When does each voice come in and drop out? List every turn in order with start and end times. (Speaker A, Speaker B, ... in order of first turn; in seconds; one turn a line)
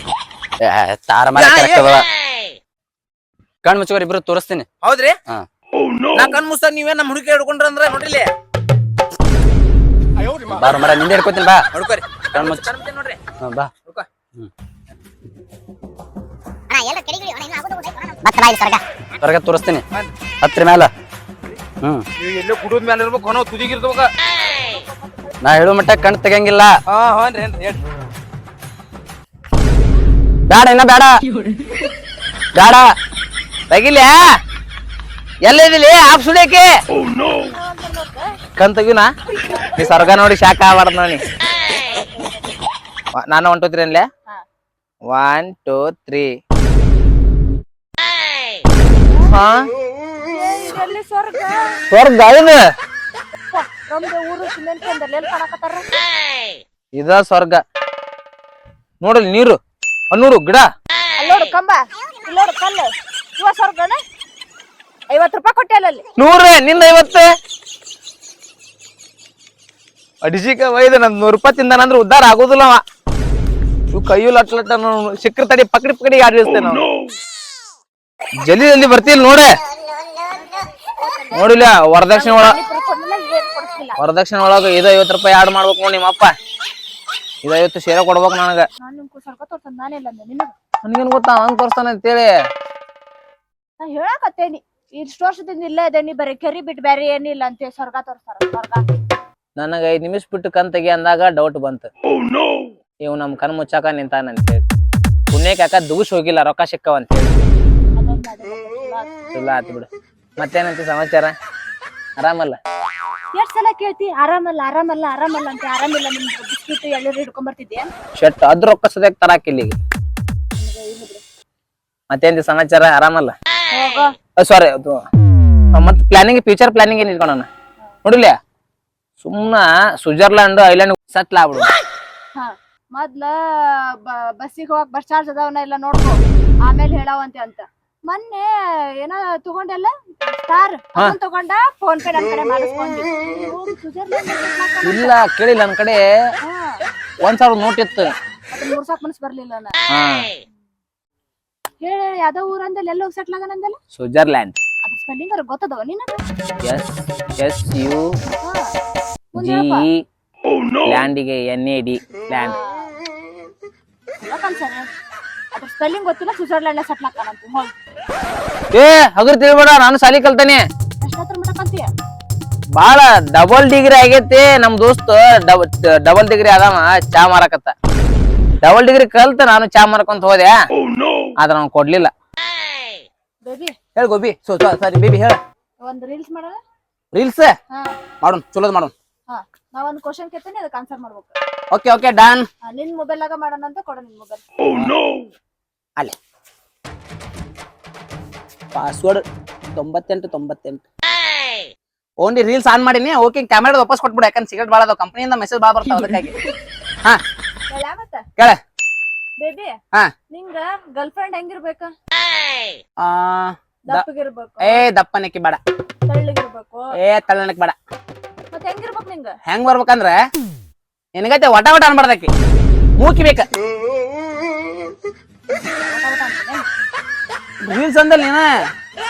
Speaker A: 0.6-2.0
Speaker B: 1.3-1.9
Speaker A: 3.6-4.7
Speaker B: 4.8-5.2
Speaker B: 6.1-8.3
Speaker A: 10.3-11.7
Speaker B: 11.7-13.2
Speaker A: 12.3-12.7
Speaker A: 13.4-13.7
Speaker C: 16.7-18.8
Speaker A: 19.2-19.8
Speaker A: 20.4-20.9
Speaker B: 22.2-24.1
Speaker D: 24.4-25.3
Speaker A: 25.4-26.7
Speaker B: 26.9-27.8
Speaker A: 30.5-31.1
Speaker A: 32.5-32.9
Speaker B: 33.7-34.2
Speaker B: 35.4-36.7
Speaker D: 37.4-38.3
Speaker B: 38.6-39.1
Speaker D: 39.4-39.8
Speaker B: 39.7-41.2
Speaker D: 41.7-42.5
Speaker B: 43.1-44.1
Speaker B: 45.0-46.3
Speaker D: 49.0-49.3
Speaker B: 49.3-49.7
Speaker D: 50.2-51.8
Speaker B: 51.9-52.6
Speaker D: 53.5-55.9
Speaker B: 56.9-57.6
Speaker B: 59.0-59.6
Speaker B: 60.1-60.7
Speaker D: 61.2-64.0
Speaker D: 65.1-66.0
Speaker B: 66.2-67.3
Speaker B: 70.2-72.8
Speaker B: 73.9-76.9
Speaker B: 78.4-79.5
Speaker D: 80.3-81.5
Speaker B: 81.3-82.6
Speaker D: 82.1-84.0
Speaker B: 84.0-86.3
Speaker B: 87.4-88.6
Speaker D: 88.8-90.5
Speaker B: 90.8-92.3
Speaker D: 93.8-98.8
Speaker B: 99.6-101.9
Speaker B: 103.0-104.6
Speaker B: 105.3-107.3
Speaker D: 108.0-109.1
Speaker B: 109.3-111.3
Speaker B: 112.2-112.6
Speaker D: 113.3-117.9
Speaker B: 118.2-119.8
Speaker D: 120.5-121.2
Speaker B: 122.1-123.3
Speaker D: 123.7-124.1
Speaker B: 124.4-125.0
Speaker B: 125.7-127.5
Speaker B: 128.0-128.3
Speaker B: 129.2-131.7
Speaker D: 132.3-138.5
Speaker D: 139.0-145.1
Speaker B: 144.8-146.0
Speaker D: 146.4-146.8
Speaker B: 147.2-148.1
Speaker D: 148.5-149.7
Speaker B: 149.9-150.3
Speaker D: 151.8-153.8
Speaker B: 153.9-154.6
Speaker D: 154.8-156.1
Speaker B: 156.6-158.1
Speaker D: 158.4-158.7
Speaker D: 159.3-159.9
Speaker B: 159.4-160.0
Speaker B: 160.8-162.5
Speaker D: 162.3-163.0
Speaker D: 164.2-164.9
Speaker D: 165.5-167.7
Speaker B: 168.7-170.6
Speaker D: 171.0-171.9
Speaker B: 172.8-177.7
Speaker B: 178.6-180.5
Speaker B: 181.4-182.1
Speaker D: 183.4-183.7
Speaker B: 183.9-185.4
Speaker D: 185.8-186.6
Speaker B: 187.1-187.5
Speaker B: 188.2-188.9
Speaker D: 189.3-191.3
Speaker B: 191.7-192.5
Speaker D: 192.6-194.4
Speaker B: 198.7-199.2
Speaker B: 199.7-200.8
Speaker B: 202.2-206.3
Speaker D: 207.7-208.2
Speaker D: 209.4-209.7
Speaker D: 210.3-211.9
Speaker B: 213.0-214.1
Speaker D: 213.9-214.8
Speaker B: 214.6-215.6
Speaker D: 216.1-216.9
Speaker B: 216.9-217.7
Speaker D: 218.5-219.3
Speaker B: 219.4-220.2
Speaker B: 221.1-222.3
Speaker B: 223.0-223.5
Speaker D: 225.5-226.7
Speaker B: 227.6-228.5